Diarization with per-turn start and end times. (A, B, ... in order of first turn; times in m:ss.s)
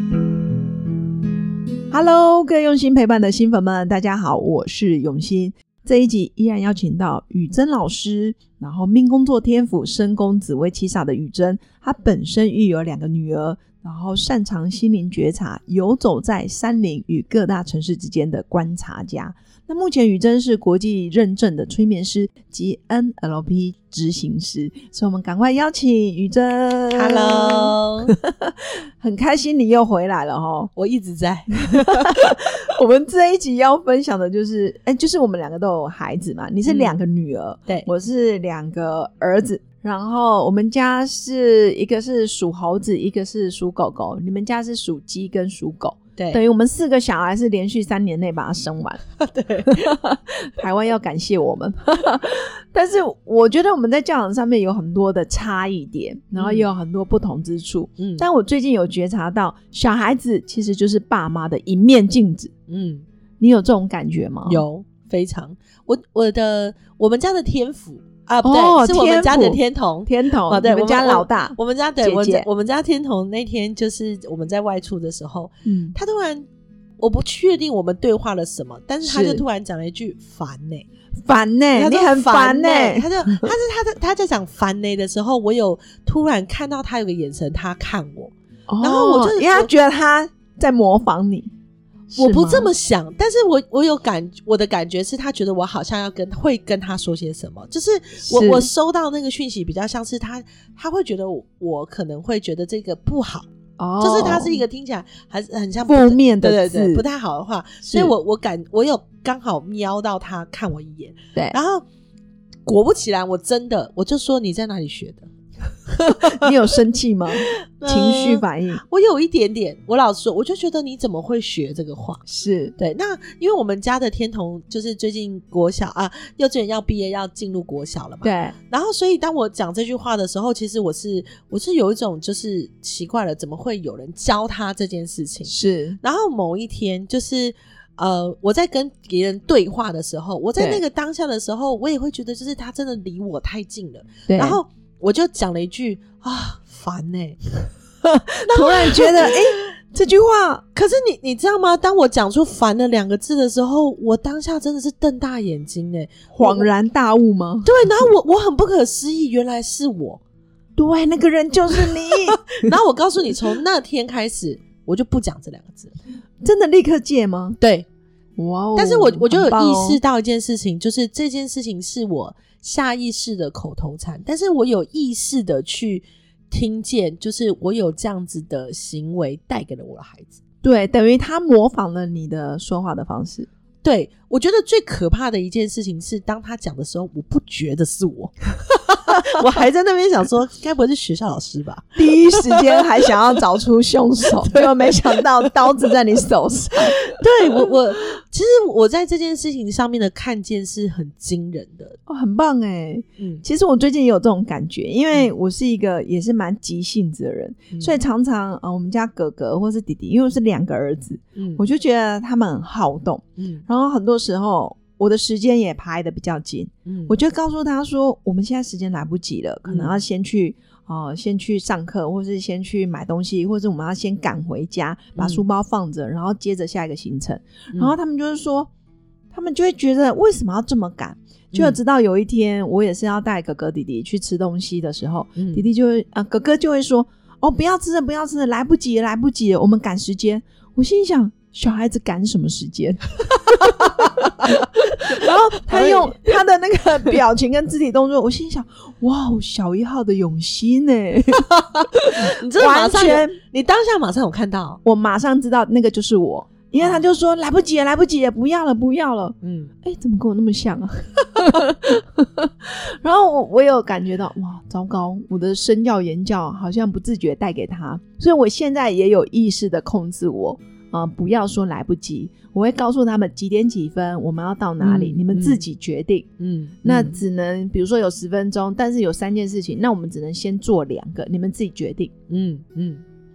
0:01.9-0:30.7 A
0:26.9-0:28.2 B
0:30.8-0:32.1 B
0:31.8-0:49.0 A
0:36.7-0:37.0 B
0:46.2-0:46.4 B
0:49.2-0:50.0 B
0:49.6-1:02.5 A
0:56.4-0:56.7 B
0:58.0-0:58.3 B
1:02.7-1:03.0 B
1:03.4-1:04.7 A
1:04.4-1:16.5 B
1:08.4-1:12.5 A
1:15.6-1:16.0 A
1:17.0-1:20.9 B
1:19.0-1:19.4 A
1:21.2-1:23.5 A
1:21.7-1:29.7 B
1:28.7-1:31.5 A
1:32.1-1:32.7 A
1:32.2-1:43.5 B
1:38.2-1:38.7 A
1:43.8-1:44.6 A
1:44.0-1:51.8 B
1:45.8-1:47.0 A
1:47.8-1:48.2 A
1:52.7-1:55.3 B
1:55.9-1:56.5 B
1:56.2-1:58.8 A
1:57.5-2:02.2 B
2:02.3-2:02.8 A
2:02.8-2:27.7 B
2:08.2-2:08.6 A
2:15.4-2:16.0 A
2:20.6-2:20.8 A
2:24.3-2:24.6 A
2:28.4-2:29.6 B
2:28.4-2:30.6 A
2:30.7-2:36.7 B
2:36.3-2:37.7 A
2:37.6-2:40.2 B
2:40.8-2:42.8 A
2:41.8-2:45.9 B
2:46.4-2:47.6 A
2:47.6-2:47.9 B
2:48.4-2:50.0 A
2:48.8-3:00.4 B
3:00.6-3:03.5 A
3:03.8-3:13.1 B
3:12.0-3:17.2 A
3:14.4-3:15.3 B
3:17.2-3:22.0 B
3:22.1-3:48.7 A
3:23.2-3:23.4 B
3:27.7-3:28.0 B
3:31.4-3:31.6 B
3:33.4-3:33.6 B
3:36.9-3:37.2 B
3:39.7-3:40.0 B
3:45.2-3:45.4 B
3:49.3-4:04.6 A
3:51.5-3:51.8 B
3:55.4-3:55.6 B
4:03.8-4:04.5 B
4:05.1-4:06.3 B
4:05.1-4:11.4 A
4:11.5-4:14.8 B
4:12.0-4:13.4 A
4:14.8-4:36.3 A
4:16.8-4:17.0 B
4:19.4-4:19.7 B
4:34.8-4:35.6 B
4:36.4-4:37.2 B
4:36.8-4:42.1 A
4:42.3-4:43.0 B